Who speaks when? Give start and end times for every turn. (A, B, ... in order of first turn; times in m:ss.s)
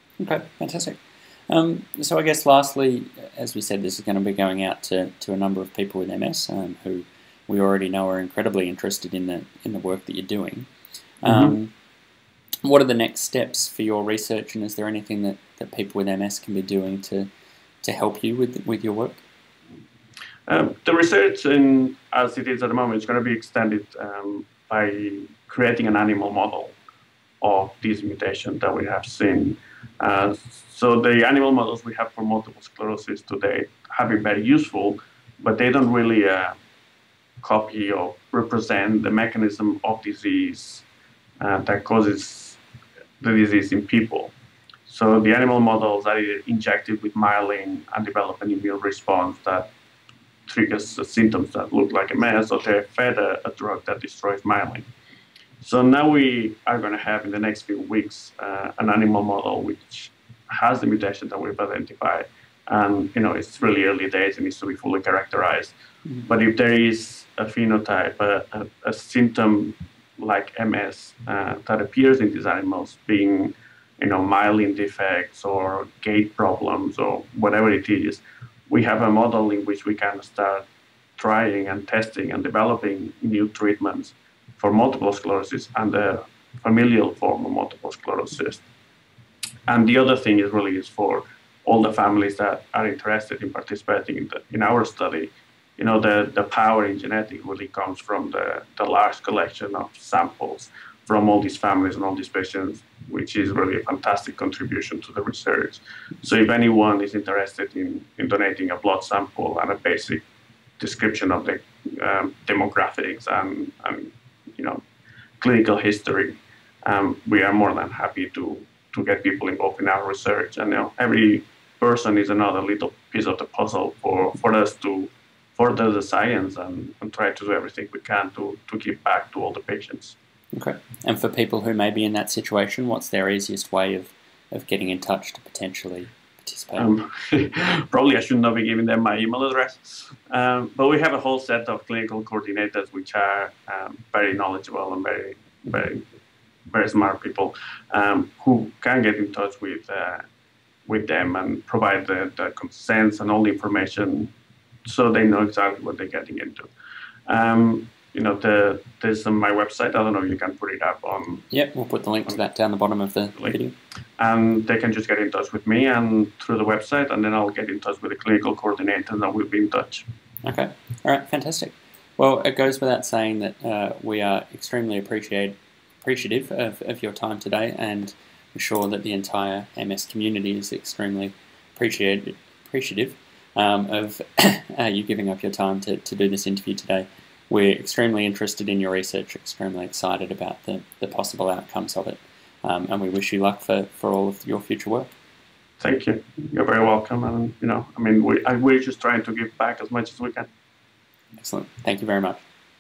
0:00.2-0:10.7 A
0:11.2-0:11.7 A
0:11.2-0:11.6 B
0:12.6-0:17.3 A
0:17.8-0:19.2 A
0:20.5-0:26.8 B
0:27.4-0:36.6 B
0:37.4-0:40.9 B
0:41.4-0:42.6 B
0:43.2-0:44.3 B
0:44.9-0:49.7 B
0:50.5-0:54.9 B
0:55.6-1:05.7 B
1:06.3-1:20.7 B
1:21.2-1:28.7 B
1:29.7-1:50.2 B
1:50.8-1:54.8 B
1:55.4-2:10.2 B
2:10.5-2:16.9 A
2:16.8-2:26.0 B
2:26.7-2:30.3 B
2:30.9-2:34.3 B
2:34.8-2:36.7 B
2:37.3-2:41.4 B
2:41.5-2:43.8 A
2:44.2-2:50.1 B
2:50.4-3:15.1 A
3:15.8-3:20.5 B
3:21.4-3:22.4 A